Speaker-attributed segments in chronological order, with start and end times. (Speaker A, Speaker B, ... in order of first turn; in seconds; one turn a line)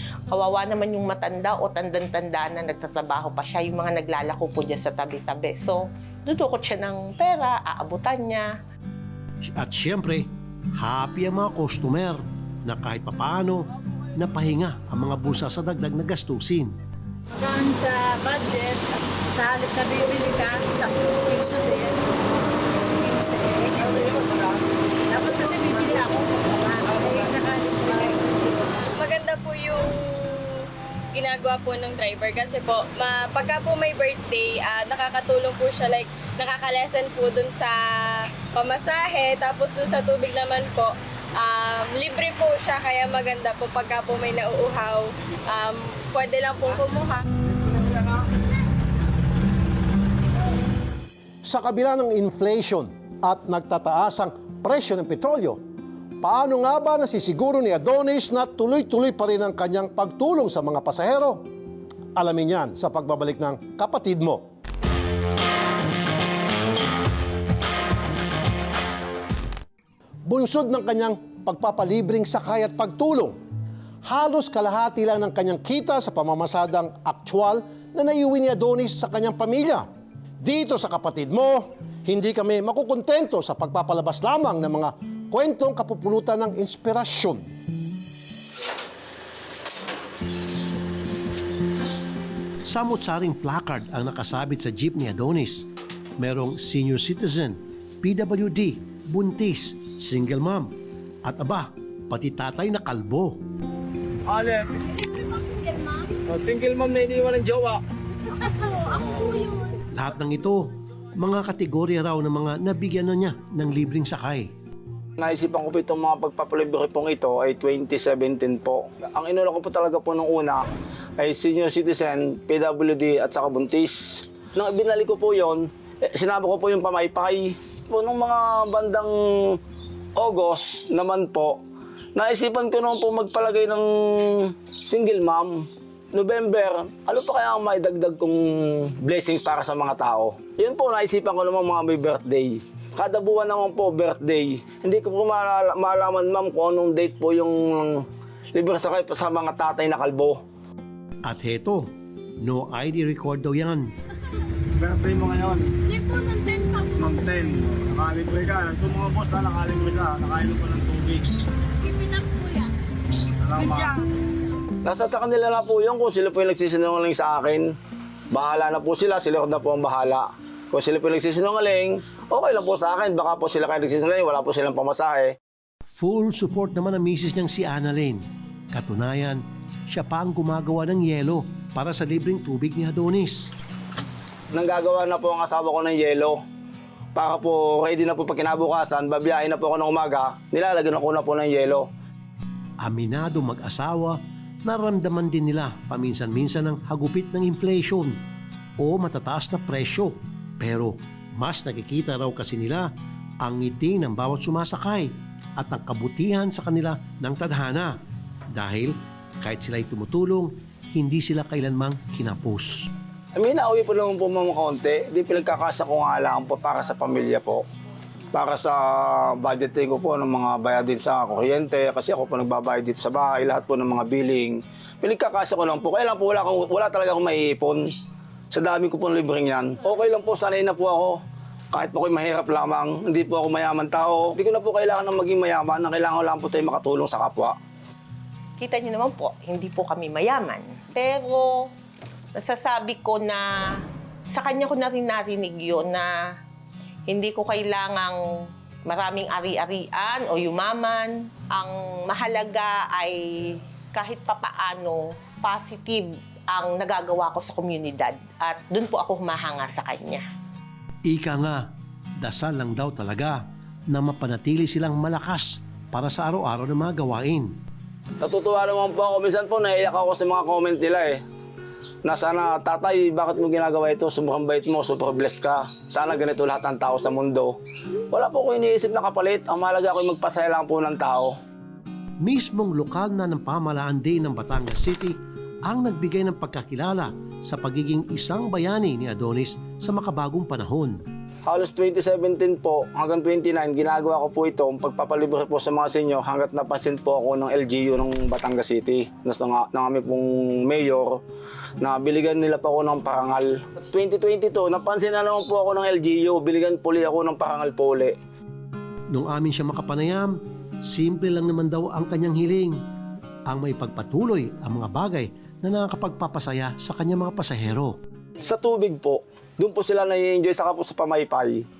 Speaker A: 0.3-8.6
Speaker B: 9.5-16.7
Speaker C: 17.3-22.0
Speaker C: 22.9-24.0
Speaker D: 23.8-24.5
Speaker C: 25.1-28.8
Speaker E: 28.9-30.5
Speaker E: 31.1-37.8
Speaker E: 38.4-47.2
Speaker D: 47.5-48.2
Speaker F: 51.4-55.6
Speaker F: 56.2-61.4
Speaker F: 62.1-64.5
Speaker F: 70.2-73.4
Speaker F: 74.0-79.8
Speaker F: 80.4-87.5
Speaker B: 92.7-100.7
Speaker B: 101.2-103.4
Speaker D: 104.3-104.9
Speaker D: 106.3-107.8
Speaker D: 108.8-109.4
Speaker B: 109.9-114.5
Speaker D: 115.2-120.7
Speaker D: 121.2-129.6
Speaker D: 130.2-131.6
Speaker D: 132.2-150.4
Speaker B: 151.2-151.9
Speaker B: 152.4-153.8
Speaker D: 154.8-155.8
Speaker D: 156.9-161.2
Speaker D: 163.4-164.0
Speaker D: 164.8-167.7
Speaker D: 168.3-175.3
Speaker B: 175.9-183.5
Speaker D: 184.5-186.4
Speaker D: 187.1-191.9
Speaker B: 192.8-198.2
Speaker B: 198.8-202.9
Speaker B: 203.4-208.0
Speaker B: 208.5-212.9
Speaker D: 213.4-217.6
Speaker D: 218.3-227.8
Speaker D: 228.5-231.2
Speaker D: 231.7-237.5
Speaker A: 238.6-241.7
Speaker A: 242.3-246.1
Speaker A: 247.1-260.2
Speaker B: 261.1-267.6
Speaker D: 268.2-271.2
Speaker D: 272.1-277.6
Speaker D: 278.1-281.3
Speaker B: 282.2-291.0
Speaker D: 291.5-301.2
Speaker D: 301.8-308.1
Speaker B: 309.1-312.8
Speaker B: 313.5-317.9
Speaker D: 318.4-321.6